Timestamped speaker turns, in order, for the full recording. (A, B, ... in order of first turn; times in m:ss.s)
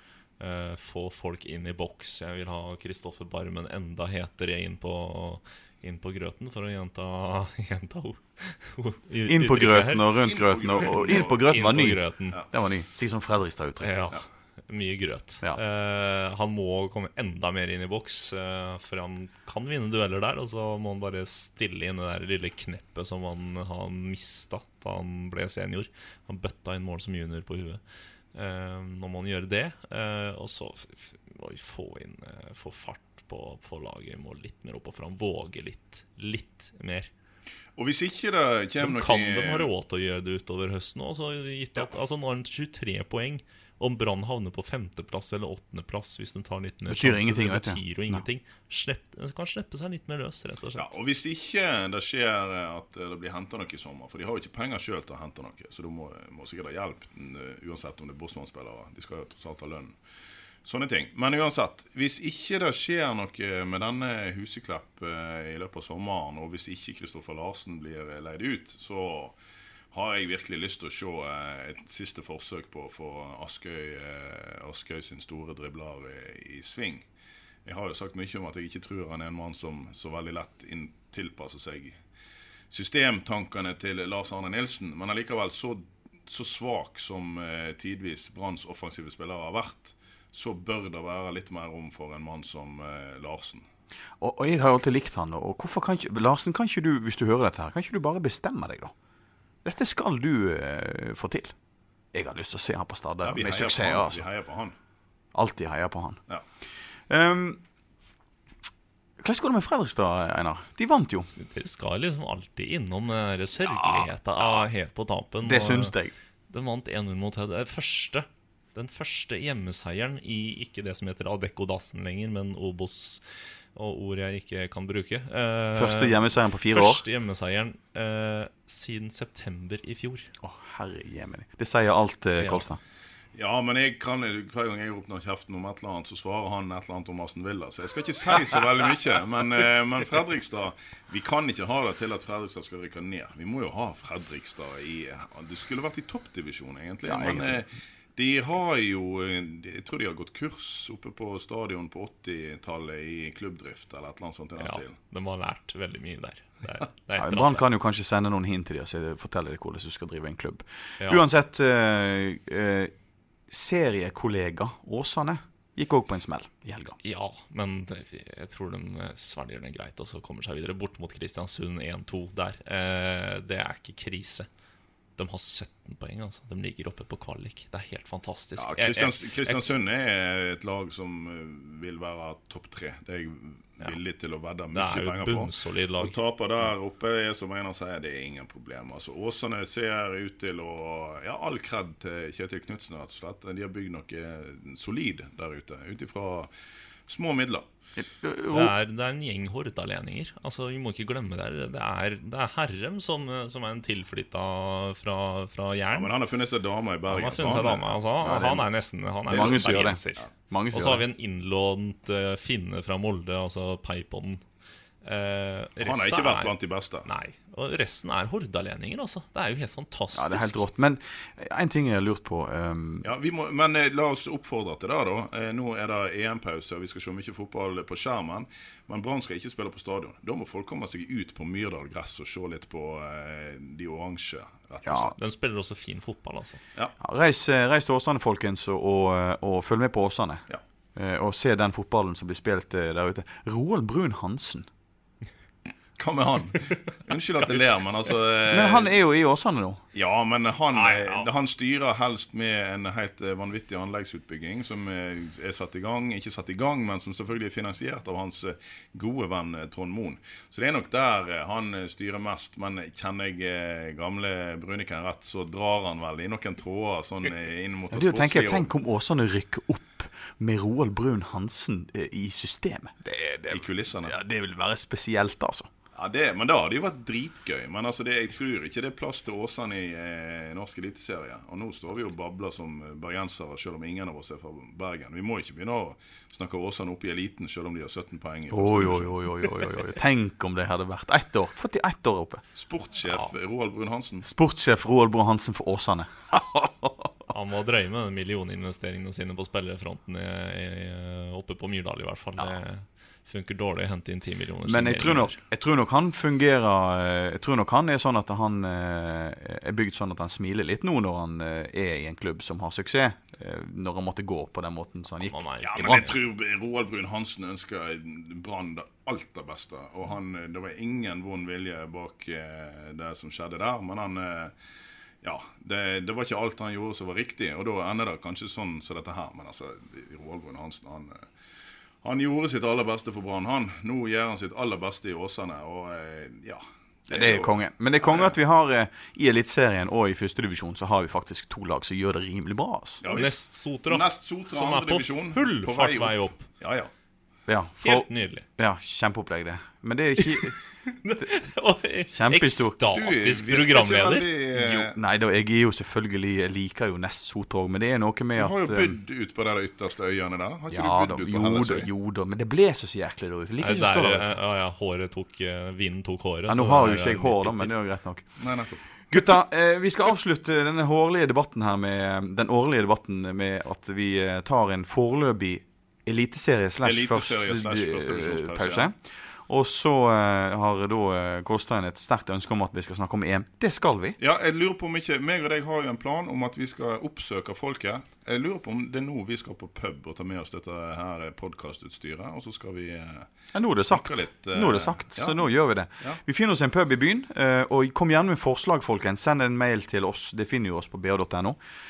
0:00.4-0:10.2 A
0:09.3-0:14.1 B
0:10.2-0:11.5 C
0:10.8-0:12.4 A
0:13.8-0:27.8 A
0:28.3-0:37.1 A
0:37.8-0:39.7 C
0:38.8-0:50.9 A
0:46.9-0:48.2 B
0:50.8-1:00.0 C
1:00.6-1:09.4 C
1:09.9-1:17.1 C
1:17.6-1:22.0 C
1:22.7-1:33.6 C
1:34.2-1:38.9 B
1:39.6-1:41.5 B
1:42.1-1:44.3 B
1:43.2-1:44.8 C
1:45.3-1:46.2 B
1:47.1-1:47.6 B
1:49.2-1:51.3 B
1:51.2-1:55.9 A
1:55.4-1:56.1 B
1:56.5-2:03.2 A
2:03.8-2:10.3 A
2:05.7-2:07.0 B
2:10.4-2:12.8 B
2:13.4-2:35.0 C
2:27.0-2:27.6 B
2:34.6-2:37.6 A
2:37.2-2:42.9 B
2:43.5-2:47.0 B
2:47.0-2:54.5 A
2:55.2-2:59.6 A
2:58.6-3:16.5 C
3:04.7-3:06.1 A
3:17.1-3:17.7 C
3:18.0-3:18.7 B
3:18.5-3:26.1 A
3:25.9-3:27.9 C
3:27.1-3:34.4 A
3:28.2-3:28.7 B
3:29.3-3:31.0 B
3:29.3-3:30.3 C
3:35.0-3:36.5 A
3:35.8-3:37.1 C
3:37.0-3:40.6 A
3:40.1-3:43.1 B
3:43.0-3:55.2 C
3:54.8-3:55.2 B
3:55.2-3:56.6 A
3:57.0-4:00.4 B
4:01.0-4:04.7 B
4:06.0-4:08.9 C
4:08.5-4:09.8 B
4:09.9-4:28.7 C
4:10.7-4:11.3 A
4:27.9-4:35.7 B
4:33.5-4:34.2 C
4:36.0-4:49.6 C
4:48.5-4:52.4 B
4:52.6-4:54.3 C
4:54.2-4:57.1 B
4:57.3-5:05.4 A
5:04.6-5:16.1 B
5:15.2-5:16.2 A
5:15.6-5:24.5 C
5:25.2-5:31.3 C
5:32.0-5:38.3 C
5:37.1-5:43.0 B
5:43.0-5:46.9 C
5:43.0-5:46.5 A
5:47.5-5:50.6 B
5:47.8-5:48.4 A
5:51.0-5:54.3 A
5:52.1-5:52.8 B
5:52.9-5:55.0 C
5:54.5-5:59.0 B
5:58.4-6:01.9 C
6:00.7-6:04.4 B
6:03.6-6:07.7 A
6:06.5-6:08.3 B
6:08.4-6:08.8 C
6:09.1-6:24.2 B
6:16.8-6:18.9 C
6:24.2-6:35.5 C
6:33.5-6:41.6 B